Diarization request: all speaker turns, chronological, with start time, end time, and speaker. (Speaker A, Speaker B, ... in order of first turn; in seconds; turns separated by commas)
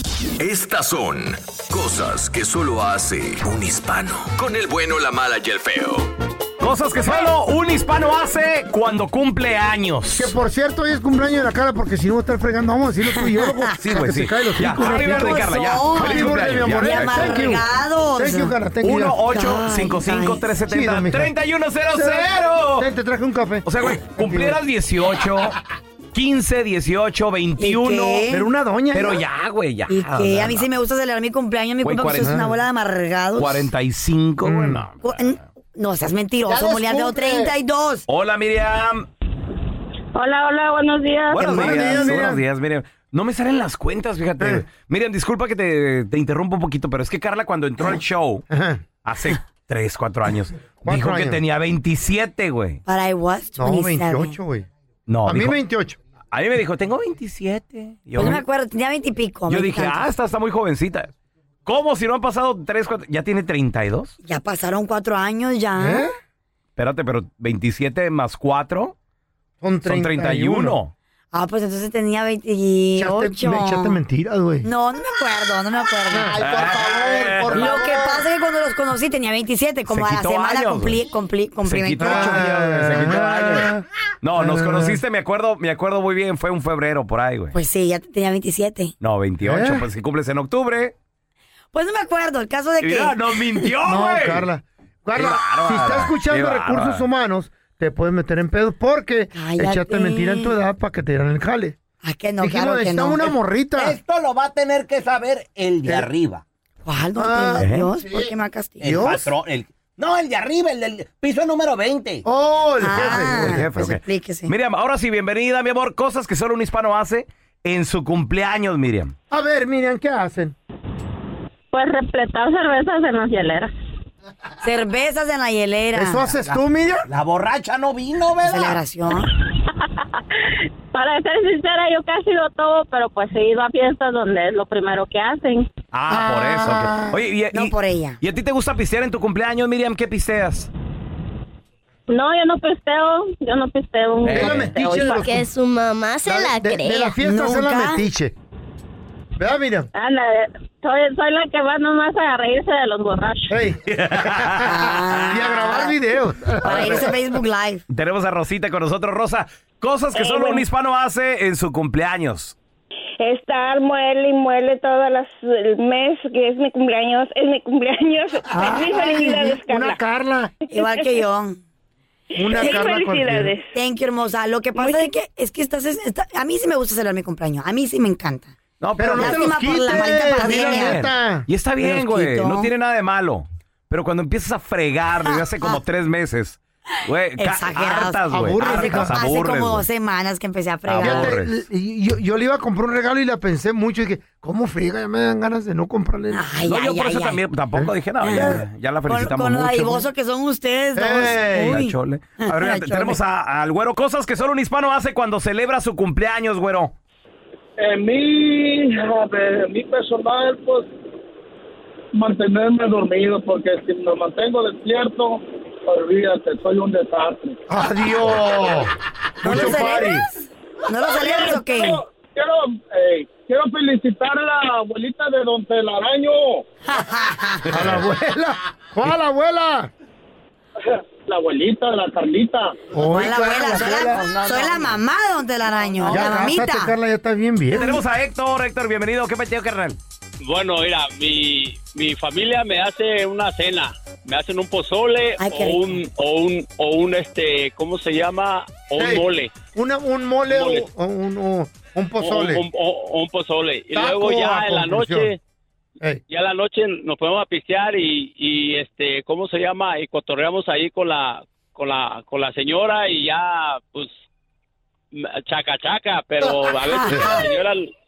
Speaker A: 0.4-6.1, Speaker B: 6.6-10.3, Speaker C: 10.2-19.2, Speaker D: 13.0-13.8, Speaker B: 13.8-17.4, Speaker D: 14.7-18.6, Speaker B: 18.8-22.9, Speaker D: 19.3-20.5, Speaker C: 20.7-21.3, Speaker C: 21.9-24.6, Speaker B: 23.6-25.6, Speaker B: 26.1-28.3, Speaker D: 27.6-28.4, Speaker C: 28.3-29.2, Speaker B: 28.9-30.7, Speaker D: 29.9-33.7, Speaker B: 31.8-32.4, Speaker C: 32.2-32.5, Speaker B: 33.4-35.4, Speaker C: 34.4-34.9, Speaker D: 35.0-38.0, Speaker C: 36.5-37.5, Speaker B: 38.1-39.0, Speaker E: 40.1-42.0, Speaker B: 41.3-48.4, Speaker C: 41.4-42.4, Speaker C: 44.4-44.6, Speaker C: 48.5-48.8, Speaker B: 49.0-52.8, Speaker C: 50.8-51.4, Speaker D: 52.9-54.4, Speaker C: 53.5-54.7, Speaker B: 55.1-55.6, Speaker C: 55.2-56.0, Speaker B: 56.3-58.4, Speaker D: 58.1-60.1, Speaker B: 59.5-61.1, Speaker B: 61.6-64.1, Speaker D: 64.2-66.1, Speaker C: 65.8-66.1, Speaker B: 66.8-68.9, Speaker C: 69.6-70.8, Speaker B: 69.8-70.9, Speaker D: 71.3-74.0, Speaker C: 73.0-74.7, Speaker D: 74.6-76.7, Speaker C: 76.1-78.2, Speaker B: 76.4-77.7, Speaker D: 77.5-82.4, Speaker B: 79.9-81.0, Speaker B: 81.6-83.7, Speaker C: 82.0-83.8, Speaker B: 84.2-87.5, Speaker C: 84.3-85.0, Speaker D: 87.5-88.9, Speaker B: 89.0-90.9, Speaker C: 89.4-89.8, Speaker D: 91.7-93.7, Speaker B: 92.8-94.5, Speaker C: 93.8-101.8, Speaker B: 95.1-97.0, Speaker D: 99.3-100.6, Speaker D: 102.0-103.3, Speaker C: 102.4-104.0, Speaker F: 103.8-106.4, Speaker D: 106.8-109.0, Speaker C: 107.2-108.2, Speaker B: 107.6-107.9, Speaker C: 108.8-109.3, Speaker F: 108.8-112.2, Speaker C: 112.2-113.7, Speaker D: 112.8-114.5, Speaker B: 112.9-119.1, Speaker C: 119.3-120.5, Speaker E: 121.7-123.7, Speaker D: 124.6-126.4, Speaker C: 125.9-127.0, Speaker F: 126.5-128.8, Speaker D: 128.4-129.3, Speaker E: 129.8-130.4, Speaker E: 130.9-135.7, Speaker B: 135.9-140.7, Speaker C: 136.1-137.2, Speaker D: 137.5-138.2, Speaker E: 142.1-145.2, Speaker B: 144.2-144.7, Speaker C: 144.3-145.4, Speaker G: 145.2-147.2, Speaker C: 146.2-148.3, Speaker D: 147.2-148.0, Speaker C: 149.4-149.9, Speaker E: 149.9-153.5, Speaker C: 153.5-157.1, Speaker B: 153.8-154.7, Speaker D: 154.6-155.9, Speaker D: 156.6-157.8, Speaker B: 157.9-162.5, Speaker H: 160.2-160.6, Speaker H: 163.2-170.0, Speaker C: 168.5-170.5, Speaker D: 170.7-171.6, Speaker H: 170.7-171.1, Speaker H: 172.3-173.7, Speaker C: 172.3-173.6, Speaker D: 173.7-178.5, Speaker H: 174.8-175.1, Speaker B: 178.8-189.8, Speaker C: 179.0-181.5, Speaker D: 179.2-181.0, Speaker D: 181.8-182.7, Speaker D: 185.2-185.8, Speaker D: 187.4-191.4, Speaker C: 188.3-189.2, Speaker B: 190.8-191.5, Speaker C: 191.0-196.4, Speaker D: 196.3-197.4, Speaker B: 196.7-200.0, Speaker C: 197.8-198.5, Speaker D: 198.2-203.2, Speaker C: 200.9-201.8, Speaker B: 201.6-206.9, Speaker I: 207.8-210.9, Speaker I: 212.1-217.6, Speaker C: 217.7-220.2, Speaker D: 219.4-220.3, Speaker D: 220.8-222.0, Speaker I: 221.2-226.6, Speaker D: 226.8-227.8, Speaker C: 227.7-229.9, Speaker I: 230.8-232.8, Speaker C: 232.9-234.3, Speaker D: 233.1-236.9, Speaker F: 234.4-234.7, Speaker C: 236.0-238.0, Speaker B: 237.7-240.0, Speaker J: 240.4-249.6, Speaker D: 245.4-246.0, Speaker C: 249.0-252.6, Speaker J: 250.5-250.9, Speaker J: 252.2-255.4, Speaker C: 253.9-255.3, Speaker J: 256.3-264.1, Speaker J: 265.1-267.9, Speaker D: 266.8-267.5